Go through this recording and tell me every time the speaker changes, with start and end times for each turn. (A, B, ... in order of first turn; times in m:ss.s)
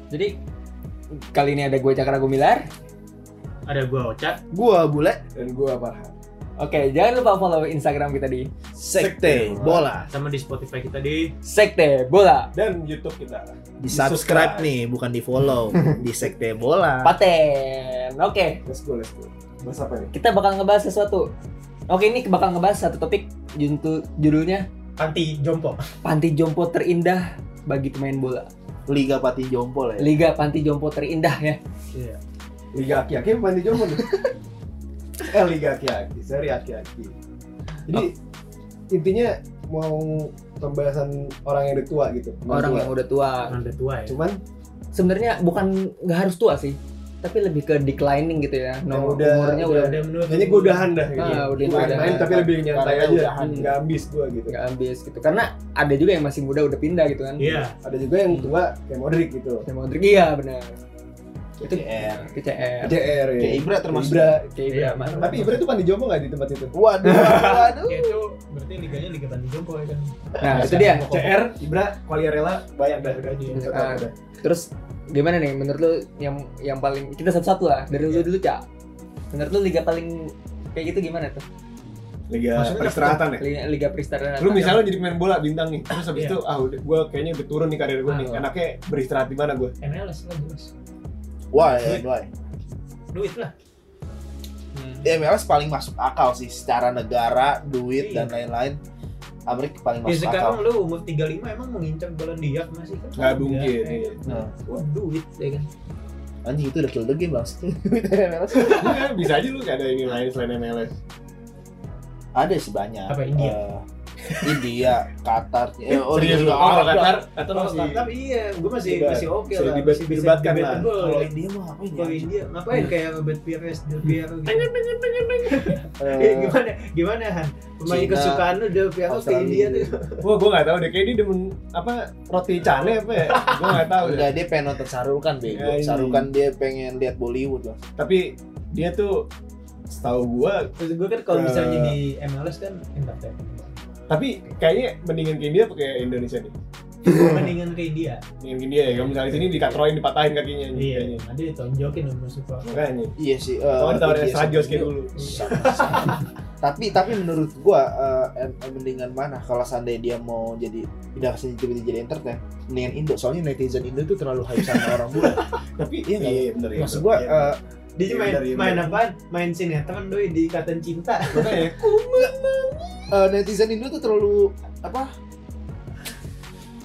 0:00.1-0:00.4 A
0:01.1-0:02.7 A
0:03.6-0:04.4 B
0:04.5-0:05.2 C
0:05.3-0:06.2 D
0:06.6-0:08.5 A
0:08.7-0:10.1 C
0:09.0-0:09.9 D
0:10.1-0:11.3 B
0:11.4-0:12.5 A
0:12.5-0:14.7 D
0:13.8-0:17.2 C
0:15.7-0:16.3 D
0:17.0-0:18.6 A
0:18.6-0:20.1 D
0:20.1-0:21.3 A
0:21.9-0:24.7 A
0:25.0-0:25.8 B
0:26.0-0:28.5 A
0:28.9-0:30.1 C
0:30.0-0:31.6 A
0:31.9-0:32.2 B
0:32.7-0:34.1 D
0:35.2-0:37.1 D
0:38.9-0:42.9 D
0:42.5-0:43.6 A
0:43.5-0:44.2 B
0:44.1-0:44.4 D
0:44.9-0:50.0 A
0:48.9-0:54.5 D
0:49.6-0:51.1 B
0:51.2-0:52.2 A
0:51.2-0:53.8 C
0:53.4-0:53.7 A
0:54.5-0:57.6 A
0:57.4-0:57.8 B
0:57.8-0:59.6 D
0:59.6-1:00.8 A
1:01.6-1:02.3 C
1:01.7-1:03.0 A
1:02.8-1:04.5 D
1:03.3-1:04.4 C
1:04.5-1:05.5 A
1:04.7-1:05.6 B
1:05.2-1:06.7 D
1:06.7-1:08.2 C
1:07.0-1:07.6 A
1:07.9-1:11.1 B
1:10.4-1:11.1 A
1:10.5-1:14.1 D
1:10.5-1:11.4 C
1:13.0-1:13.6 B
1:13.5-1:18.6 A
1:19.3-1:21.4 A
1:22.3-1:23.4 D
1:22.5-1:23.2 B
1:23.4-1:24.9 A
1:24.4-1:29.7 D
1:26.1-1:26.4 B
1:28.1-1:28.4 B
1:29.8-1:30.7 B
1:31.5-1:32.3 C
1:31.6-1:32.0 B
1:33.1-1:33.5 B
1:34.8-1:35.0 A
1:35.0-1:38.8 C
1:38.0-1:38.3 B
1:39.5-1:40.6 C
1:40.0-1:45.7 B
1:43.2-1:44.8 D
1:44.2-1:44.5 C
1:46.4-1:49.1 C
1:48.5-1:50.9 D
1:52.3-1:53.8 C
1:53.1-1:53.6 B
1:54.3-1:54.6 D
1:54.4-1:57.1 C
1:55.9-1:58.1 D
1:57.0-2:01.3 B
1:58.8-2:00.9 D
2:00.9-2:02.3 C
2:02.0-2:04.7 B
2:04.5-2:05.8 D
2:05.4-2:10.2 B
2:06.0-2:06.6 C
2:07.8-2:08.5 C
2:09.1-2:09.9 C
2:10.2-2:14.4 D
2:13.3-2:13.6 B
2:14.0-2:17.8 C
2:15.5-2:16.3 D
2:18.0-2:19.3 D
2:19.9-2:20.7 D
2:20.8-2:23.8 B
2:21.3-2:22.0 D
2:24.1-2:26.5 D
2:27.0-2:28.2 B
2:28.4-2:31.2 D
2:28.8-2:29.8 B
2:30.7-2:32.7 B
2:32.6-2:33.1 D
2:33.2-2:45.5 C
2:33.8-2:35.3 D
2:35.2-2:36.3 B
2:45.2-2:49.0 D
2:46.1-2:47.6 C
2:48.0-2:51.7 B
2:51.3-2:53.1 D
2:53.1-2:55.1 C